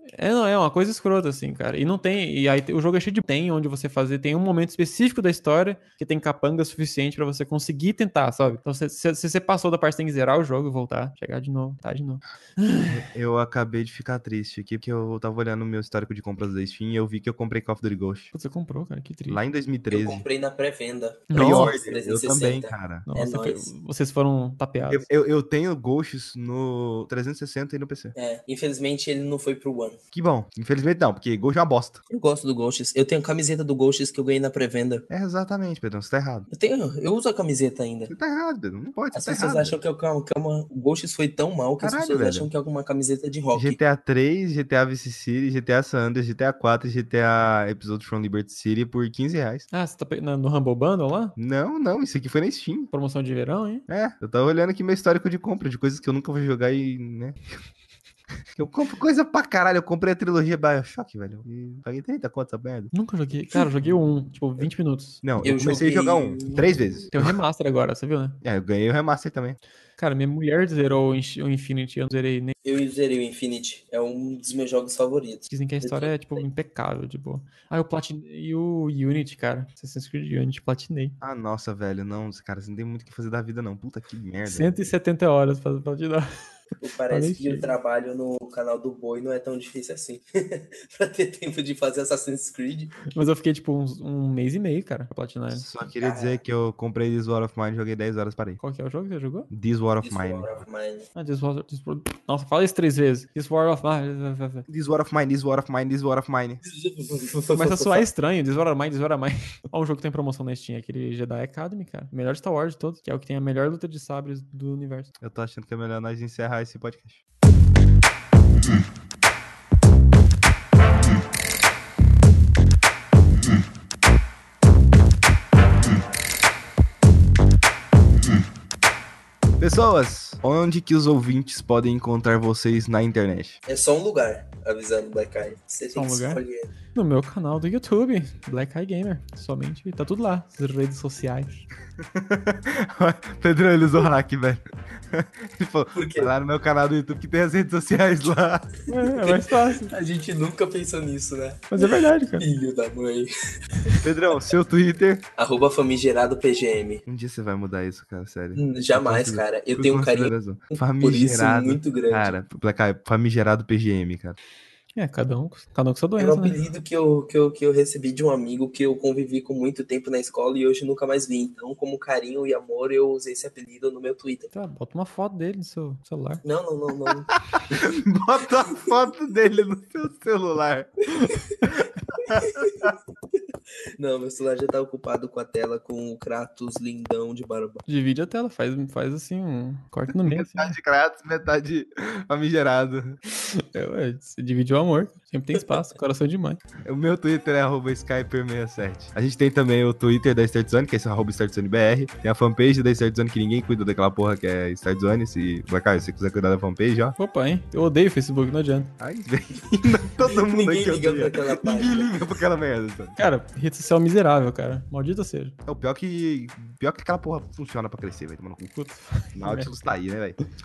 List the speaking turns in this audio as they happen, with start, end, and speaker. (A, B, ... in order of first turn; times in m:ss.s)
0:00.2-0:13.1 A
0:12.9-0:18.3 B
0:18.3-0:19.4 A
0:19.3-0:20.2 B
0:19.9-0:23.7 C
0:21.3-0:21.7 A
0:21.3-0:23.1 B
0:23.1-0:25.1 A
0:24.9-0:28.1 B
0:28.2-0:30.0 C
0:30.1-0:32.0 B
0:32.1-0:35.0 C
0:35.1-0:36.5 B
0:36.5-0:38.1 C
0:38.1-0:39.8 B
0:39.1-0:43.8 C
0:41.8-0:42.5 B
0:43.5-0:49.7 B
0:49.7-0:51.4 A
0:51.4-0:52.9 B
0:52.9-0:53.8 A
0:53.9-0:57.4 B
0:58.5-1:02.9 B
1:02.9-1:05.3 A
1:05.2-1:07.4 B
1:05.4-1:06.8 C
1:07.1-1:08.4 A
1:08.4-1:09.6 B
1:10.0-1:12.5 A
1:12.6-1:16.5 C
1:15.5-1:21.2 A
1:21.2-1:24.8 B
1:24.4-1:26.3 A
1:26.8-1:33.0 C
1:27.1-1:27.7 A
1:33.1-1:35.7 A
1:35.5-1:38.6 B
1:36.0-1:36.4 C
1:38.6-1:39.5 A
1:39.5-1:40.5 B
1:40.0-1:41.1 C
1:41.2-1:44.7 A
1:44.7-1:46.6 B
1:46.6-1:48.0 C
1:47.5-1:55.1 A
1:55.2-1:57.2 B
2:09.6-2:13.6 B
2:13.7-2:16.7 C
2:15.9-2:16.4 A
2:17.0-2:21.7 A
2:22.0-2:28.7 B
2:26.0-2:26.3 C
2:28.9-2:29.9 A
2:29.0-2:34.0 C
2:31.7-2:32.4 A
2:34.0-2:35.2 B
2:35.4-2:37.0 C
2:37.1-2:44.4 B
2:38.5-2:42.4 C
2:45.0-2:46.6 A
2:46.2-2:54.5 C
2:54.5-2:56.4 A
2:56.4-2:57.8 C
2:57.5-3:01.1 B
3:01.1-3:01.6 C
3:01.6-3:02.9 B
3:02.2-3:02.9 C
3:04.0-3:07.8 C
3:07.9-3:10.7 A
3:10.1-3:13.2 B
3:13.4-3:16.6 A
3:16.8-3:27.2 B
3:27.2-3:28.9 A
3:29.0-3:33.2 B
3:30.3-3:32.1 C
3:33.2-3:35.6 A
3:35.7-3:38.7 B
3:38.8-3:39.9 A
3:39.4-3:40.4 B